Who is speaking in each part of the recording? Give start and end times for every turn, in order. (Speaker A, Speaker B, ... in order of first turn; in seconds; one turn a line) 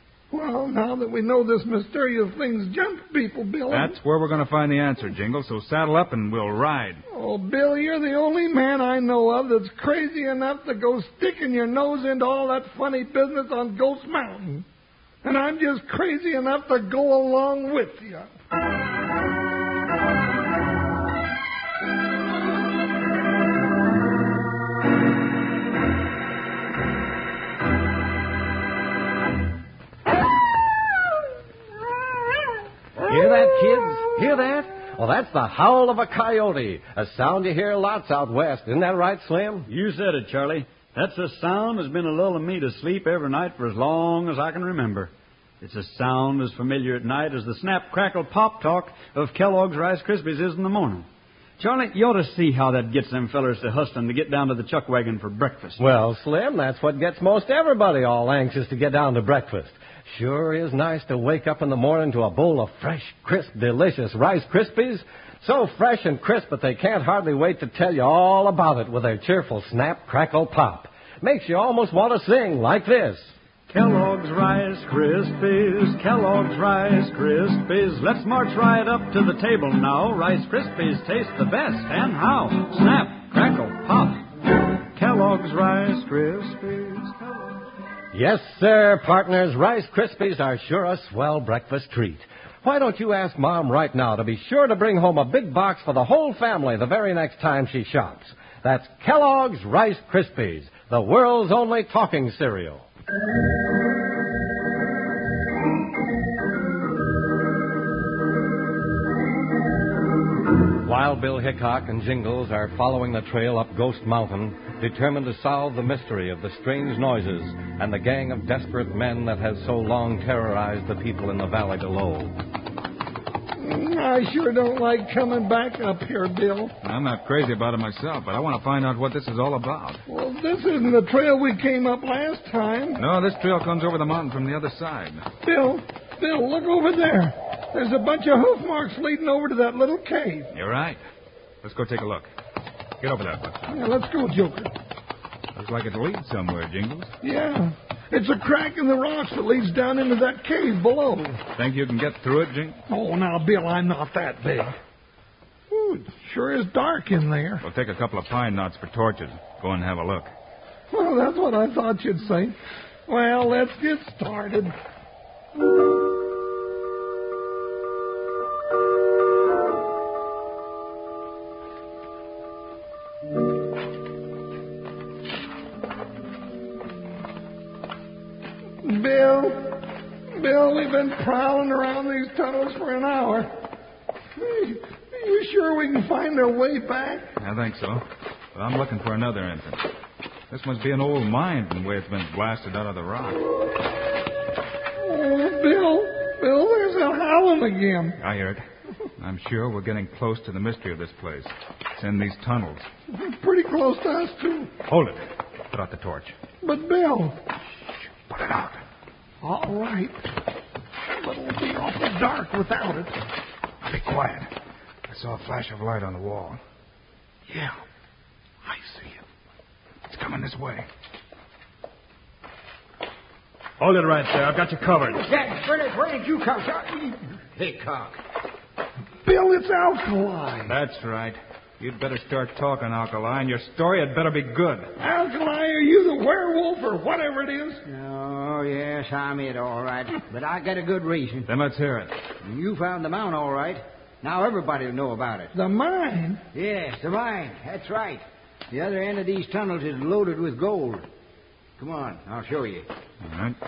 Speaker A: 0.3-4.0
Speaker B: 3.7-7.0
Speaker A: 7.1-14.6
Speaker A: 15.2-18.3
Speaker C: 33.0-39.7
Speaker D: 39.7-51.0
Speaker D: 51.6-55.8
Speaker C: 55.8-73.3
Speaker D: 73.7-84.2
Speaker D: 84.9-87.4
Speaker C: 88.1-102.8
Speaker C: 110.8-122.3
Speaker A: 123.6-126.7
Speaker B: 126.8-130.0
Speaker A: 130.1-133.0
Speaker B: 133.0-135.2
Speaker A: 135.4-140.5
Speaker B: 140.5-141.0
Speaker B: 141.6-142.3
Speaker B: 143.0-143.8
Speaker A: 143.7-144.7
Speaker B: 145.5-147.1
Speaker A: 147.2-151.4
Speaker B: 151.6-152.8
Speaker A: 152.9-154.7
Speaker A: 155.7-157.6
Speaker B: 157.6-160.3
Speaker A: 160.9-162.6
Speaker A: 163.1-164.7
Speaker A: 178.8-179.8
Speaker A: 180.3-183.5
Speaker A: 184.3-187.3
Speaker B: 187.4-189.8
Speaker B: 190.5-193.4
Speaker A: 195.0-198.2
Speaker B: 198.2-198.6
Speaker B: 199.2-202.9
Speaker A: 203.1-204.7
Speaker B: 204.9-206.3
Speaker A: 206.6-207.4
Speaker B: 208.3-208.8
Speaker A: 209.4-210.3
Speaker A: 211.2-213.2
Speaker B: 213.8-214.5
Speaker B: 215.1-216.6
Speaker B: 217.5-217.8
Speaker B: 218.6-219.2
Speaker B: 220.1-220.9
Speaker B: 223.8-225.2
Speaker E: 225.0-228.2
Speaker A: 229.2-230.8
Speaker B: 230.7-234.9
Speaker A: 235.0-237.8
Speaker E: 237.8-241.5
Speaker B: 241.5-242.1
Speaker E: 242.4-245.5
Speaker A: 245.5-246.4
Speaker E: 246.5-251.1
Speaker E: 251.8-252.9
Speaker B: 253.2-253.6